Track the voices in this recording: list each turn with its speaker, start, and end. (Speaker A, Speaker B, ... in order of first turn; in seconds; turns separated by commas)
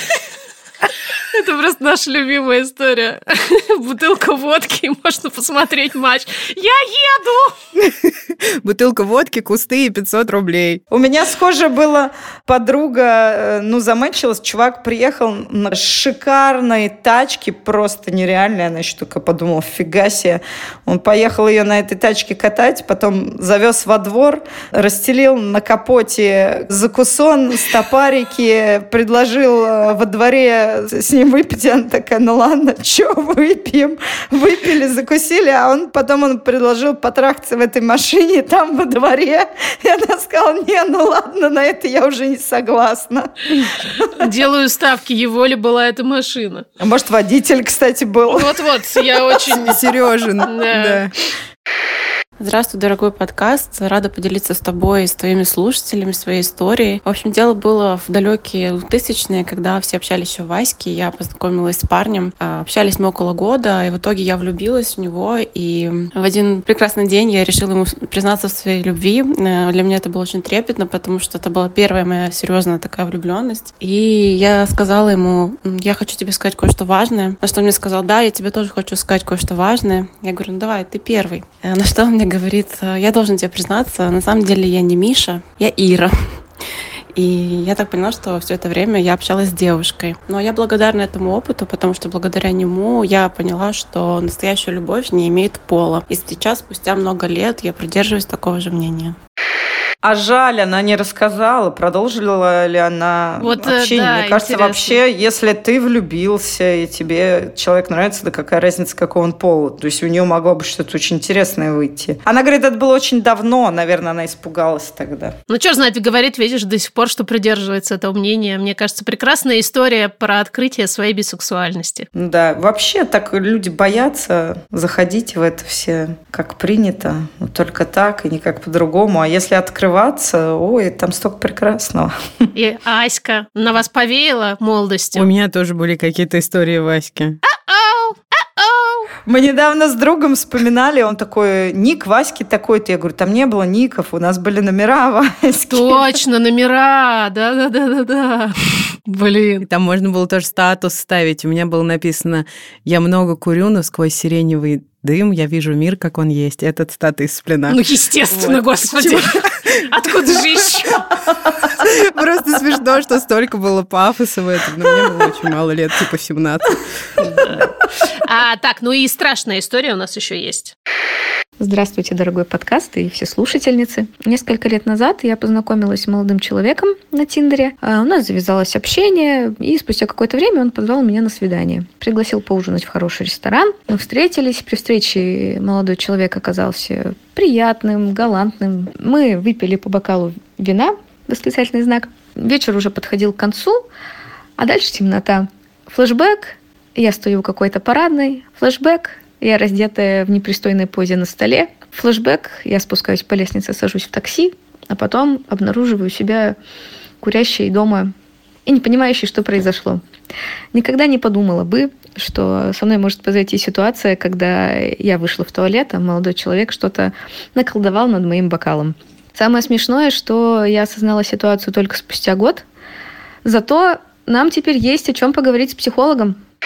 Speaker A: 1.3-7.5, Speaker B: 7.8-10.8, Speaker C: 10.9-44.1, Speaker A: 44.1-46.7, Speaker C: 46.8-49.0, Speaker A: 48.3-49.8, Speaker B: 49.5-51.1, Speaker A: 50.5-51.1, Speaker D: 52.4-86.4, Speaker D: 87.1-99.2, Speaker C: 100.0-115.3, Speaker A: 103.4-105.0, Speaker A: 115.5-122.1, Speaker C: 122.1-132.2, Speaker A: 132.6-135.3, Speaker B: 135.2-137.4, Speaker A: 137.5-139.1, Speaker C: 139.3-146.2, Speaker A: 145.7-149.7, Speaker B: 149.6-160.7, Speaker A: 157.7-161.1, Speaker B: 161.6-167.5, Speaker A: 167.2-167.7, Speaker A: 168.2-170.7, Speaker E: 171.6-193.8, Speaker E: 194.6-206.6, Speaker E: 207.2-208.1, Speaker E: 208.7-210.0, Speaker E: 210.7-222.7, Speaker E: 223.4-226.4